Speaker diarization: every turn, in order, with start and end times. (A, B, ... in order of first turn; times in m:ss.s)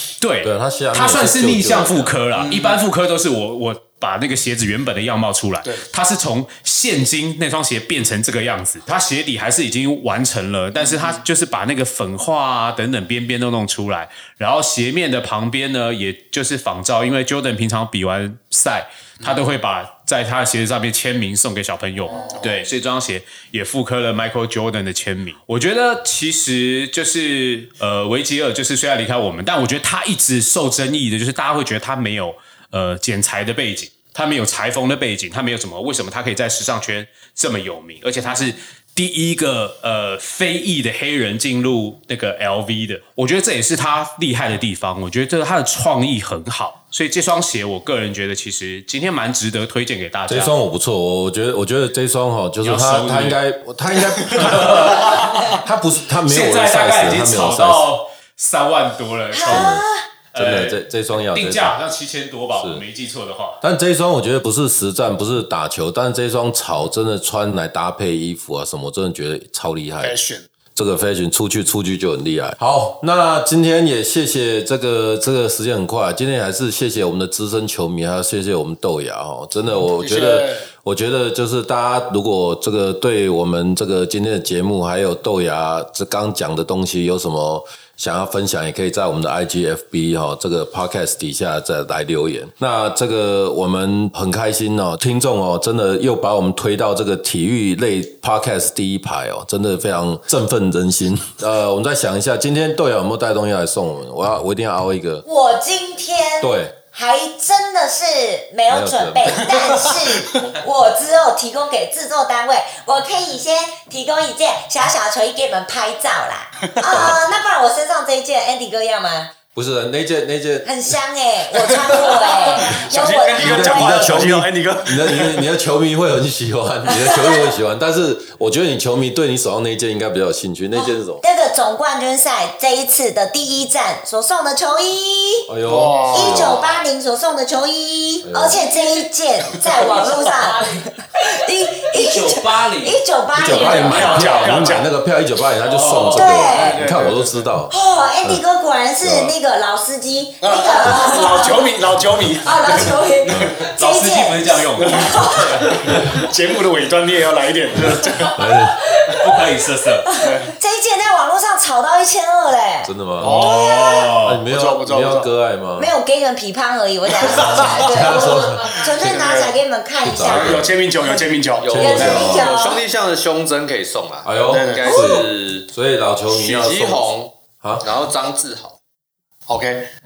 0:00.2-0:50.5 A
0:00.4-0:02.2 B
0:02.4-0:02.8 C
0:22.0-0:22.6 C
0:22.1-0:22.4 D
0:50.3-0:57.8 B
0:52.6-0:53.4 A
0:54.3-0:55.6 A
0:56.2-0:59.8 A
0:59.3-1:00.0 D
0:59.5-0:59.8 B
1:00.3-1:03.6 A
1:00.3-1:01.7 B
1:02.6-1:02.8 B
1:03.6-1:10.2 B
1:10.0-1:10.4 C
1:10.8-1:45.2 B
1:20.0-1:20.7 C
1:45.2-1:59.3 D
1:46.4-1:46.8 B
1:48.7-1:49.8 B
1:49.9-1:50.4 C
1:56.9-1:57.2 B
1:59.5-2:01.0 B
2:00.6-2:04.2 D
2:01.8-2:05.4 C
2:03.4-2:11.2 B
2:06.9-2:07.5 D
2:10.7-2:15.5 D
2:15.5-2:16.6 B
2:15.6-2:16.6 C
2:16.1-2:24.6 D
2:18.2-2:18.6 B
2:20.0-2:20.8 A
2:21.8-2:23.0 A
2:23.3-2:28.4 B
2:23.4-2:24.9 C
2:25.6-2:26.5 A
2:26.1-2:26.8 D
2:26.4-2:27.5 C
2:27.7-2:31.7 D
2:29.0-2:29.3 B
2:30.4-2:33.5 C
2:32.4-2:35.7 D
2:33.8-2:36.3 A
2:34.8-2:38.4 C
2:38.3-2:38.8 B
2:38.9-2:39.3 D
2:39.1-2:40.2 A
2:40.0-2:44.0 D
2:40.2-2:40.5 C
2:42.8-2:43.4 B
2:43.2-2:45.3 C
2:43.2-2:44.4 A
2:44.2-2:45.9 B
2:45.8-2:51.2 D
2:47.2-2:48.8 B
2:47.2-2:49.6 C
2:50.0-2:50.7 B
2:50.2-2:52.4 C
2:51.6-2:55.7 E
2:51.6-2:52.6 B
2:51.8-2:52.8 D
2:54.2-2:57.1 B
2:54.5-2:54.9 C
2:54.9-2:55.2 D
2:56.3-2:58.8 E
2:57.6-2:57.9 B
2:59.5-2:59.9 C